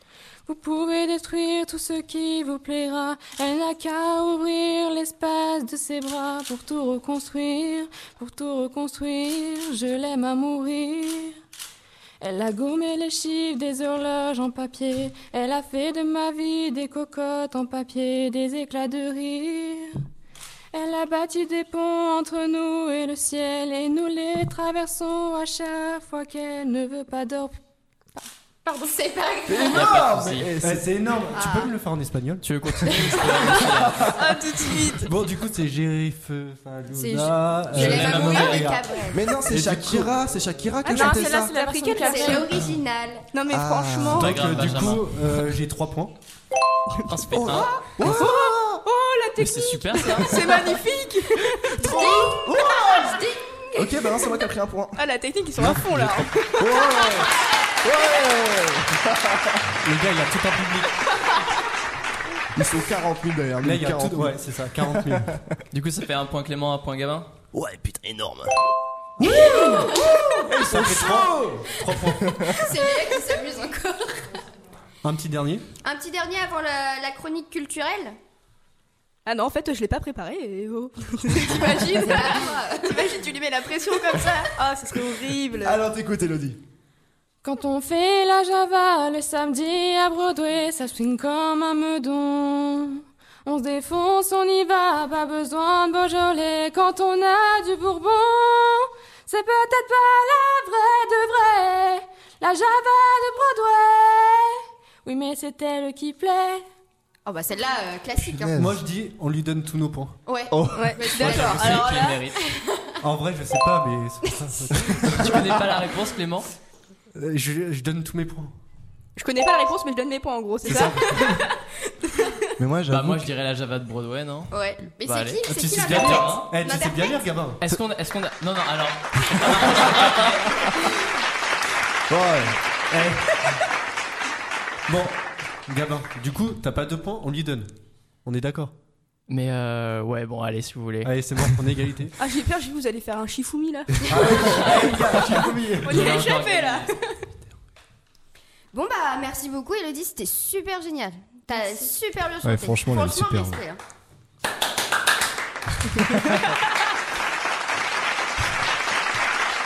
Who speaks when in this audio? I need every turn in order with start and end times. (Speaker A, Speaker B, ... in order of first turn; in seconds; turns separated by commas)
Speaker A: 0.5-11.3, Speaker A: 12.2-19.9, Speaker A: 20.7-27.6, Speaker B: 28.7-30.0, Speaker C: 29.5-30.9, Speaker D: 29.7-30.5, Speaker E: 30.6-32.5, Speaker B: 31.4-31.7, Speaker D: 32.4-34.3, Speaker C: 32.9-34.1, Speaker F: 34.2-35.1, Speaker E: 35.0-38.8, Speaker B: 36.9-39.5, Speaker D: 37.7-38.8, Speaker C: 39.1-41.6, Speaker E: 39.5-40.1, Speaker F: 40.8-42.5, Speaker A: 40.9-42.5, Speaker B: 42.0-43.4, Speaker F: 43.3-44.8, Speaker C: 43.5-44.3, Speaker E: 44.1-46.2, Speaker D: 44.2-45.5, Speaker D: 47.1-47.9, Speaker C: 47.3-48.8, Speaker F: 47.6-51.9, Speaker D: 49.4-50.4, Speaker B: 51.8-54.3, Speaker C: 51.8-55.0, Speaker F: 55.0-57.0, Speaker E: 55.6-56.3, Speaker C: 56.6-57.3, Speaker B: 57.0-57.3, Speaker C: 57.8-59.4, Speaker E: 59.8-61.0, Speaker C: 62.5-65.5, Speaker E: 63.6-65.3, Speaker D: 65.7-67.3, Speaker C: 67.5-68.5, Speaker B: 69.2-70.5, Speaker C: 69.3-71.6, Speaker E: 70.6-72.5, Speaker B: 71.2-74.3, Speaker C: 72.2-72.5, Speaker E: 75.0-75.7, Speaker B: 75.8-78.2, Speaker F: 79.3-85.8, Speaker B: 81.3-83.2, Speaker B: 84.0-84.3, Speaker C: 85.6-86.6, Speaker A: 87.4-106.6, Speaker B: 107.2-108.7, Speaker C: 108.3-108.7, Speaker E: 108.5-110.2, Speaker B: 110.3-113.0, Speaker C: 110.5-110.9, Speaker F: 110.7-112.3, Speaker D: 111.1-112.4, Speaker E: 113.0-115.6, Speaker C: 114.8-115.1, Speaker D: 115.1-116.5, Speaker E: 117.2-118.5, Speaker F: 119.2-121.4, Speaker C: 120.7-121.2, Speaker F: 122.0-122.5, Speaker C: 122.6-123.3, Speaker D: 122.9-126.5, Speaker B: 124.5-127.3, Speaker E: 125.5-127.6, Speaker D: 127.6-130.6, Speaker E: 132.1-133.4, Speaker E: 134.9-137.7, Speaker E: 138.2-138.7, Speaker D: 139.3-141.1, Speaker E: 141.0-142.1, Speaker F: 142.2-144.8, Speaker E: 144.0-146.2, Speaker D: 144.4-144.9, Speaker F: 145.4-147.2, Speaker D: 145.9-147.0, Speaker B: 148.7-153.8, Speaker C: 152.4-153.6